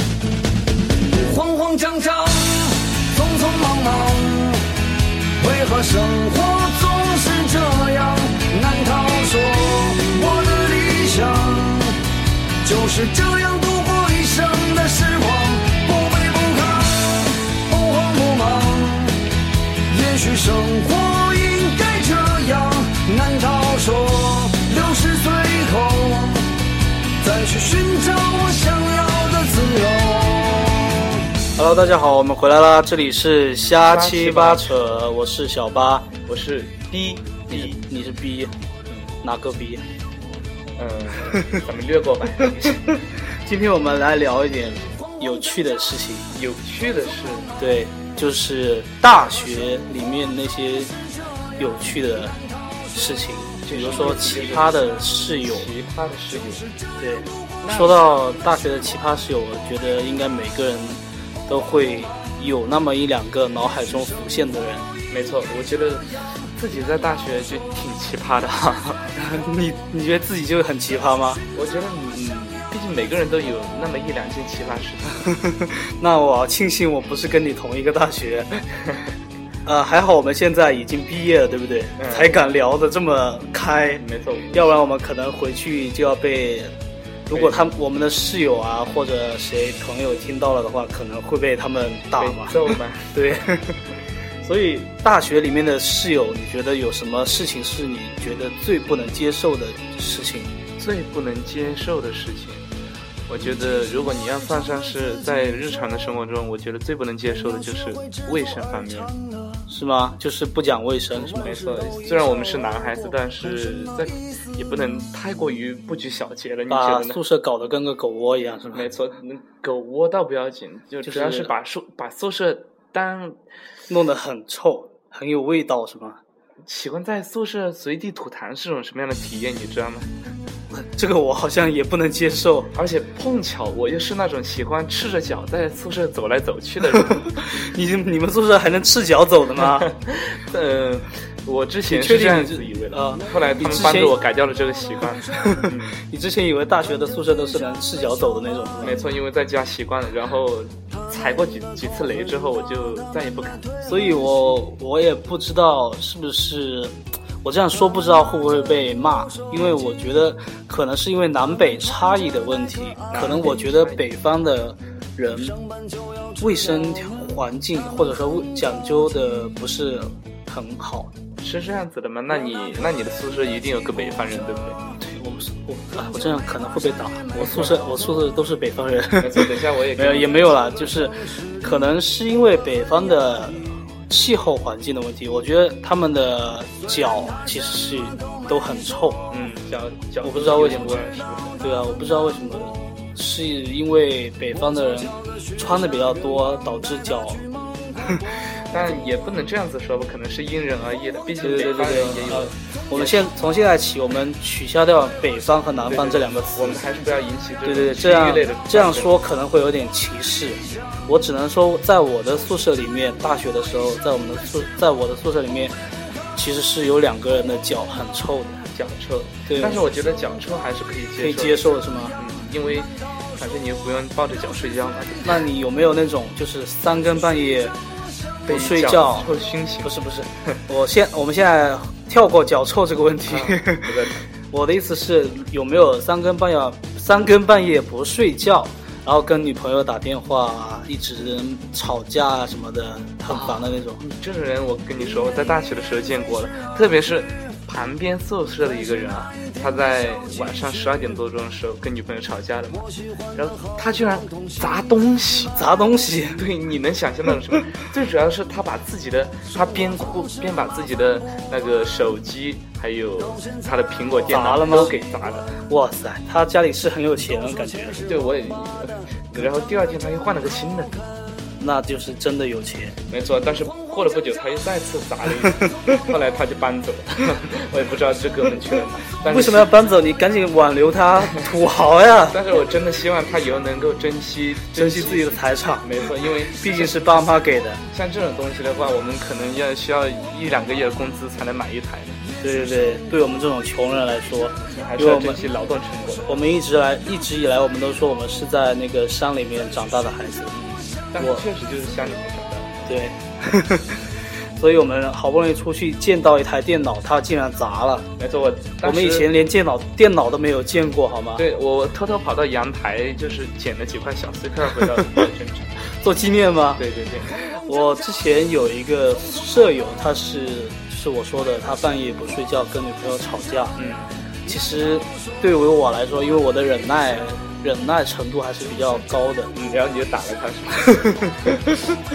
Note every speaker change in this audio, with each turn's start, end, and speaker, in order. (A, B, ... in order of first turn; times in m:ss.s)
0:01.1-0:04.6 A
0:05.4-0:12.0 A
0:12.6-0:19.3 A
0:19.9-0:26.5 A
0:27.2-0:30.9 A
0:31.6-0:36.1 B
0:33.8-0:34.7 C
0:36.2-0:37.8 C
0:37.5-0:38.5 B
0:39.2-0:39.8 B
0:40.8-0:42.9 C
0:43.4-0:46.2 B
0:46.3-0:47.5 C
0:47.6-0:50.9 B
0:51.6-0:52.4 B
0:52.9-0:55.7 B
0:53.6-0:56.7 C
0:57.0-1:04.8 B
0:57.6-0:58.0 C
1:05.1-1:09.1 C
1:09.2-1:11.4 B
1:11.5-1:15.2 C
1:15.3-1:18.6 B
1:19.6-1:26.7 B
1:22.0-1:22.4 C
1:24.0-1:24.8 C
1:27.3-1:33.8 B
1:27.3-1:27.6 C
1:32.2-1:33.2 C
1:34.4-1:40.5 B
1:40.8-1:42.6 C
1:43.3-1:49.2 C
1:49.7-1:51.6 B
1:51.3-1:57.2 C
1:56.7-1:58.8 B
1:58.7-2:03.4 C
2:01.0-2:01.5 B
2:03.9-2:06.2 B
2:06.6-2:10.1 C
2:10.8-2:12.7 B
2:12.7-2:17.4 C
2:17.2-2:19.9 B
2:19.8-2:26.0 C
2:21.9-2:24.2 B
2:25.4-2:29.0 B
2:28.8-2:33.7 C
2:33.8-2:45.6 B
2:43.1-2:44.0 C
2:46.4-2:51.1 B
2:51.4-2:54.8 C
2:55.0-3:09.2 B
2:59.2-3:00.6 C
3:09.3-3:11.6 C
3:10.2-3:11.0 B
3:11.6-3:17.4 B
3:18.7-3:23.3 C
3:21.4-3:26.8 B
3:25.9-3:29.1 C
3:27.6-3:35.7 B
3:36.3-3:38.6 B
3:38.7-3:45.4 C
3:39.5-3:39.8 B
3:41.2-3:42.2 B
3:45.2-3:47.8 B
3:48.4-3:54.0 B
3:48.5-3:49.9 C
3:53.3-3:54.2 C
3:54.5-4:04.0 B
4:03.3-4:15.5 C
4:15.5-4:16.4 B
4:16.4-4:25.6 C
4:24.3-4:24.9 B
4:25.7-4:28.0 B
4:28.0-4:31.1 C
4:31.6-4:33.0 B
4:33.1-4:39.7 C
4:39.2-4:42.4 B
4:42.3-4:47.0 C
4:44.7-4:45.9 B
4:46.5-4:47.8 B
4:47.9-4:52.2 C
4:52.4-4:55.4 B
4:54.6-4:56.4 C
4:56.3-5:01.4 B
5:01.1-5:02.8 C
5:02.9-5:08.1 B
5:08.2-5:09.3 C
5:08.8-5:11.4 B
5:11.4-5:15.7 C
5:16.0-5:23.8 B
5:16.8-5:17.3 C
5:23.8-5:24.1 C
5:24.4-5:29.5 B
5:29.5-5:31.6 C